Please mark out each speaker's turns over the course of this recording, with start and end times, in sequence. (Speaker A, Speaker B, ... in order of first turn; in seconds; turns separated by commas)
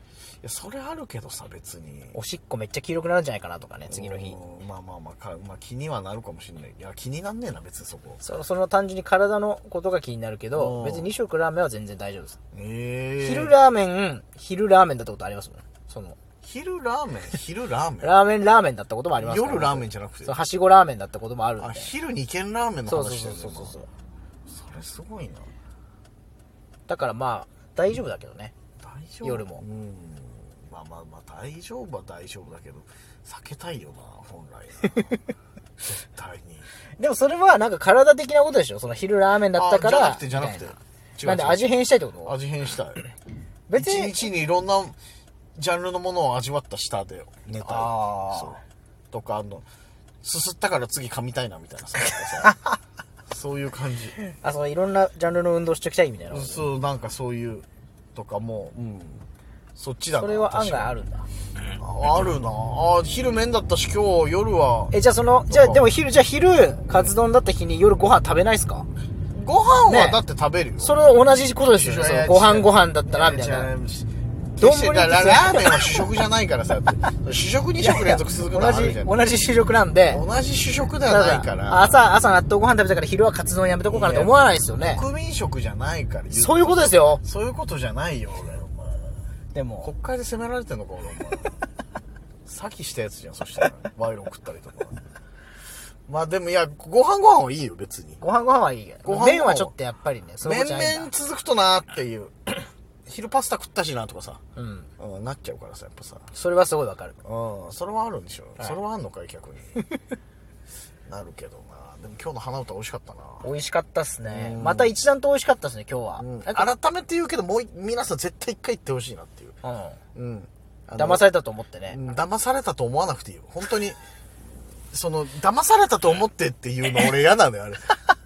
Speaker A: 0.4-2.2, Speaker B: 2.1-4.4, Speaker A: 3.9-8.2, Speaker B: 8.2-12.4, Speaker A: 10.5-11.2, Speaker A: 12.5-13.5, Speaker B: 13.2-16.1, Speaker A: 16.4-18.1, Speaker B: 18.0-21.9, Speaker A: 19.2-20.4, Speaker A: 21.6-23.8, Speaker B: 22.9-23.9, Speaker A: 24.5-25.5, Speaker B: 26.9-28.5, Speaker A: 28.8-35.2, Speaker B: 29.2-29.6, Speaker A: 35.8-36.7, Speaker B: 37.0-42.4, Speaker A: 39.5-43.1, Speaker B: 43.7-44.2, Speaker A: 43.8-45.0, Speaker A: 45.5-48.6, Speaker B: 47.6-48.6, Speaker A: 49.1-49.6, Speaker A: 50.2-52.5, Speaker A: 53.3-54.2, Speaker B: 54.2-56.6, Speaker A: 56.3-59.2, Speaker A: 59.8-60.9, Speaker B: 60.2-61.3, Speaker A: 61.7-64.9, Speaker B: 64.9-68.9, Speaker A: 65.5-65.8, Speaker A: 69.3-71.0, Speaker B: 69.9-70.2, Speaker B: 70.8-73.7, Speaker A: 71.7-79.1, Speaker B: 74.6-76.0, Speaker B: 77.8-80.2, Speaker A: 80.1-82.0, Speaker B: 81.0-85.0, Speaker A: 83.9-89.1, Speaker B: 86.3-87.2, Speaker B: 89.5-89.9, Speaker A: 89.8-91.6, Speaker A: 92.5-95.0, Speaker A: 96.1-98.2, Speaker B: 98.2-101.1, Speaker A: 99.0-99.7, Speaker A: 100.4-104.4, Speaker B: 104.5-104.9, Speaker A: 105.0-106.3, Speaker B: 106.3-107.2, Speaker A: 107.2-109.8, Speaker A: 111.0-113.5, Speaker B: 113.4-116.7, Speaker A: 114.3-114.9, Speaker A: 116.2-119.5, Speaker B: 119.6-120.0, Speaker A: 120.1-121.2, Speaker B: 120.9-122.0, Speaker A: 121.9-124.0, Speaker A: 124.9-128.0